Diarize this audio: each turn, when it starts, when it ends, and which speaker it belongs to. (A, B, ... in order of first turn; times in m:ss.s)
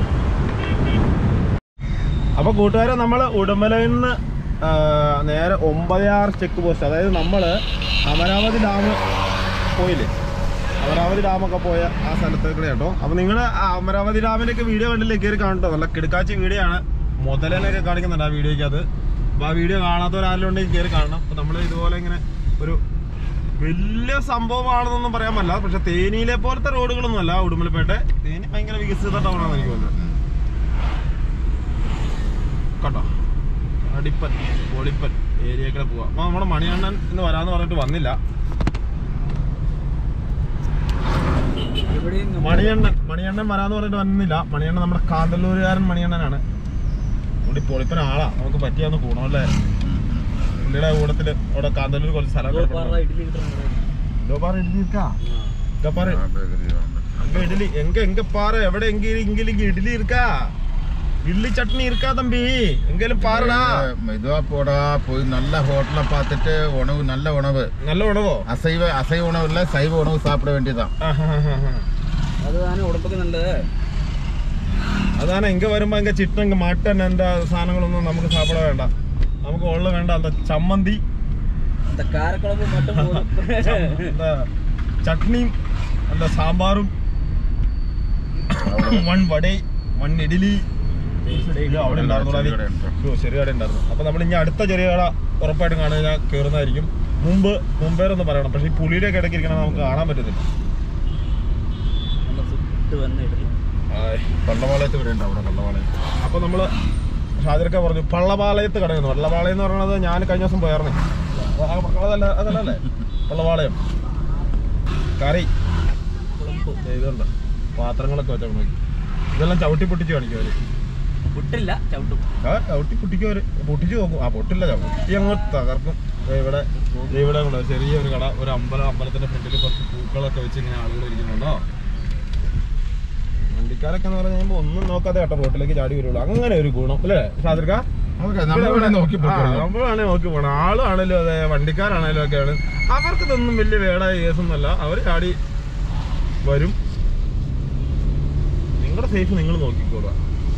0:02.4-0:09.0 A
0:09.7-0:10.1 A
0:10.8-0:18.8 A
0:19.4-0:22.8 A
0:23.5-0:30.0 A
0:29.3-0:30.2 B
0:32.8-0:33.1 A
0:33.8-0:38.2 A
0:41.9-0:42.8 C
0:42.4-0:46.4 A
0:47.4-0:49.5 A
0:49.8-0:50.5 B
0:50.6-0:53.0 A
0:52.5-0:54.0 C
0:54.2-0:55.2 A
0:55.2-0:55.5 C
0:55.8-0:56.2 A
0:55.9-0:57.6 B
0:57.2-1:00.5 A
1:01.2-1:03.9 A
1:03.2-1:07.7 B
1:07.8-1:08.4 A
1:08.5-1:10.9 B
1:11.0-1:11.8 A
1:12.4-1:13.7 C
1:15.2-1:18.9 A
1:19.4-1:21.0 A
1:21.9-1:24.2 C
1:22.7-1:24.5 A
1:25.0-1:25.6 A
1:26.1-1:26.9 A
1:28.5-1:30.6 A
1:28.5-1:29.1 B
1:31.2-1:32.0 C
1:31.5-1:40.4 A
1:31.9-1:33.0 B
1:39.5-1:40.0 B
1:42.2-1:43.5 C
1:43.9-1:44.4 A
1:44.4-1:45.6 B
1:45.5-1:46.7 A
1:47.4-1:53.8 A
1:55.2-1:55.5 A
1:56.1-1:56.8 C
1:56.8-1:58.7 A
1:59.3-2:00.6 A
2:01.3-2:02.3 C
2:02.4-2:11.6 A
2:06.8-2:07.2 C
2:13.5-2:17.9 A
2:18.2-2:19.7 B
2:18.5-2:25.4 A
2:26.4-2:26.8 A
2:28.8-2:30.2 A